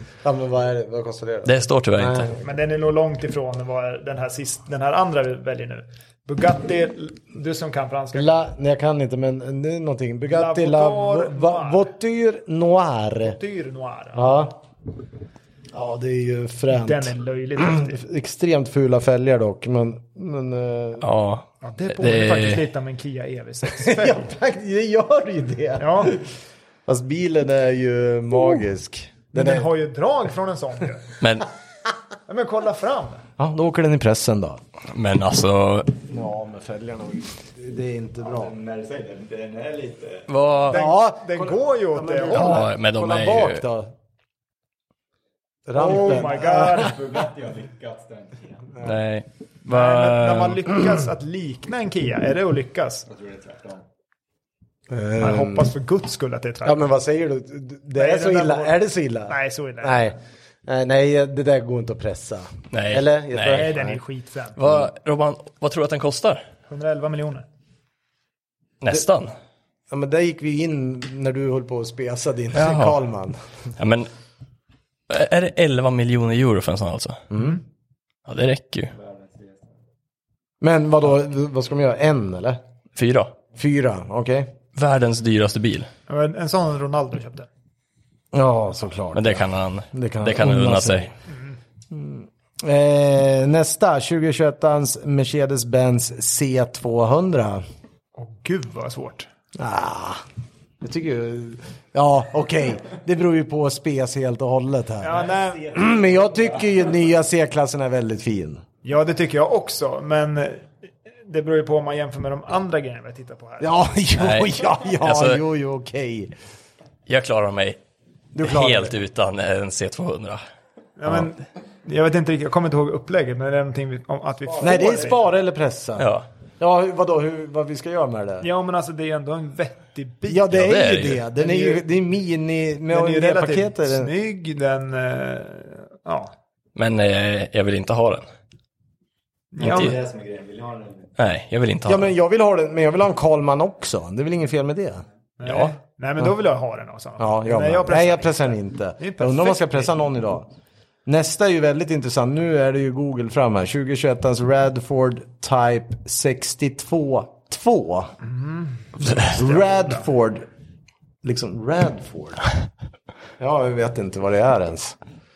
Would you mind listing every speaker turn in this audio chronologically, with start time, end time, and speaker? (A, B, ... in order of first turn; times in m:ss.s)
0:00.2-0:02.4 A
0:01.4-0:02.3 B
0:02.4-0:08.4 C
0:08.1-0:13.4 A
0:10.3-0:11.9 C
0:13.3-0:14.3 C
0:14.1-0:14.6 A
0:15.7-0:21.0 A
0:16.7-0:18.0 C
0:21.0-0:22.6 B
0:21.6-0:24.3 C
0:23.7-0:26.3 A
0:25.8-0:26.2 C
0:26.9-0:29.7 A
0:29.3-0:31.1 C
0:31.2-0:31.5 B
0:32.3-0:33.2 C
0:33.4-0:34.6 A
0:34.9-0:35.9 B
0:36.1-0:38.5 A
0:38.2-0:40.3 D
0:40.3-0:40.8 B
0:40.7-0:43.9 A
0:40.7-0:42.6 C
0:42.3-0:43.6 B
0:45.7-0:46.9 A
0:45.8-0:47.0 C
0:45.9-0:48.7 D
0:48.8-0:50.6 B
0:49.7-0:53.1 C
0:53.1-0:53.8 D
0:54.9-0:55.7 A
0:55.2-0:56.8 C
0:56.6-1:04.0 A
0:58.0-0:58.8 C
0:59.3-1:00.2 C
1:02.7-1:03.7 B
1:03.5-1:04.6 C
1:04.6-1:06.4 B
1:06.7-1:07.5 C
1:08.8-1:09.3 B
1:09.9-1:13.4 A
1:12.5-1:13.0 B
1:13.8-1:14.1 B
1:15.1-1:17.2 B
1:17.3-1:17.6 A
1:18.3-1:18.9 B
1:18.9-1:19.7 D
1:20.6-1:22.6 A
1:23.0-1:23.3 B
1:23.6-1:24.6 A
1:24.8-1:25.9 B
1:26.1-1:27.5 C
1:28.3-1:31.1 A
1:29.1-1:31.1 B
1:31.3-1:31.6 C
1:31.9-1:37.6 A
1:38.2-1:39.3 C
1:39.6-1:40.2 A
1:40.8-1:48.6 A
1:45.0-1:45.7 C
1:45.3-1:46.5 D
1:48.8-1:53.9 C
1:53.6-1:56.3 A
1:54.2-1:55.4 B
1:57.1-1:57.8 B
1:58.3-1:59.0 A
1:58.4-2:00.4 B
2:01.0-2:05.2 C
2:04.6-2:08.5 A
2:06.0-2:06.3 B
2:08.4-2:10.6 C
2:10.3-2:14.1 A
2:10.5-2:11.2 B
2:11.4-2:11.8 C
2:12.9-2:16.3 C
2:16.8-2:18.3 B
2:19.5-2:20.0 C
2:19.6-2:20.0 B
2:19.6-2:21.1 D
2:21.2-2:22.1 B
2:21.9-2:25.0 A
2:25.4-2:29.9 C
2:25.4-2:25.7 B
2:27.2-2:30.5 A
2:31.1-2:38.1 A
2:38.3-2:40.0 C
2:39.0-2:40.5 A
2:41.2-2:42.4 A
2:43.4-2:45.0 A